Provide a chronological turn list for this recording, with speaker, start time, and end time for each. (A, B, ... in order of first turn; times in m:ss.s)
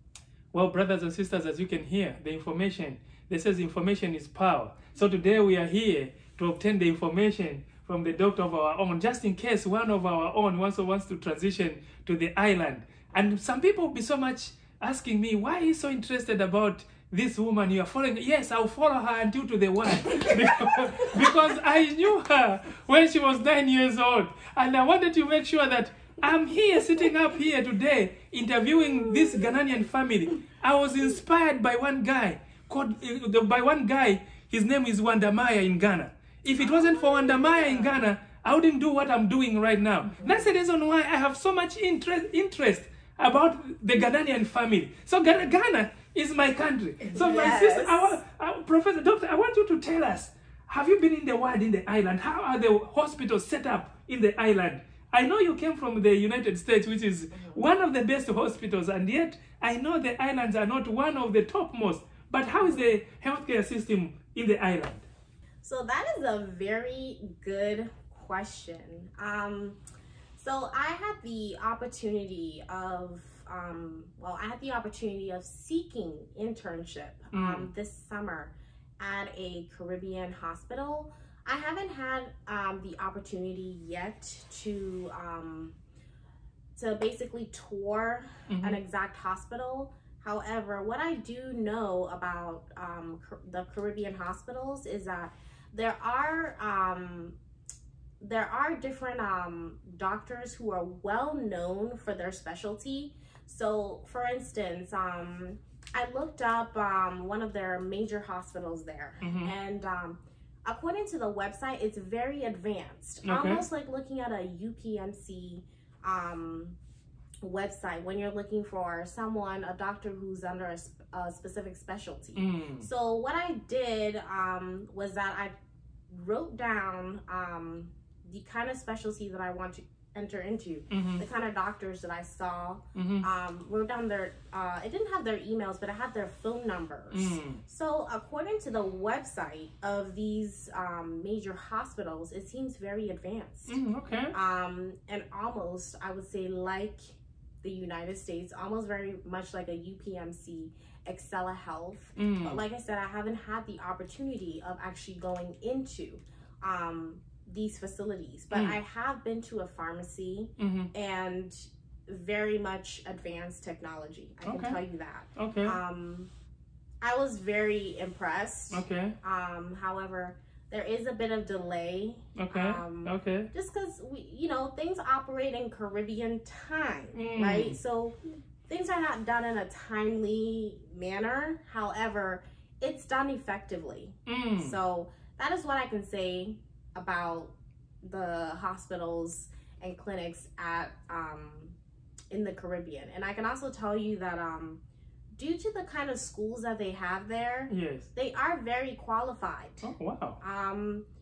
0:00.5-1:05.0 A
0:36.6-0:38.0 B
0:47.0-0:48.2 B
0:57.3-0:57.6 B
1:05.6-1:09.8 B
1:10.4-1:25.8 B
1:17.3-1:17.7 A
1:26.8-1:37.4 B
1:28.5-1:28.8 A
1:38.2-1:56.8 B
1:49.2-1:49.5 A
1:53.2-1:53.6 A
1:57.4-2:05.5 B
2:02.4-2:02.9 A
2:06.1-2:23.8 B
2:10.9-2:11.2 A
2:13.0-2:13.3 A
2:17.1-2:17.6 A
2:23.7-2:24.3 A
2:24.3-2:46.3 B
2:32.2-2:32.6 A
2:38.5-2:38.8 A
2:40.6-2:40.9 A
2:44.4-2:44.8 A
2:45.4-2:45.8 A
2:47.0-3:11.8 B
2:48.7-2:49.2 A
2:52.4-2:53.5 A
2:57.1-2:57.8 A
3:04.3-3:04.8 A
3:12.3-3:14.8 B
3:15.4-3:21.1 B
3:17.7-3:18.1 A
3:19.8-3:20.4 A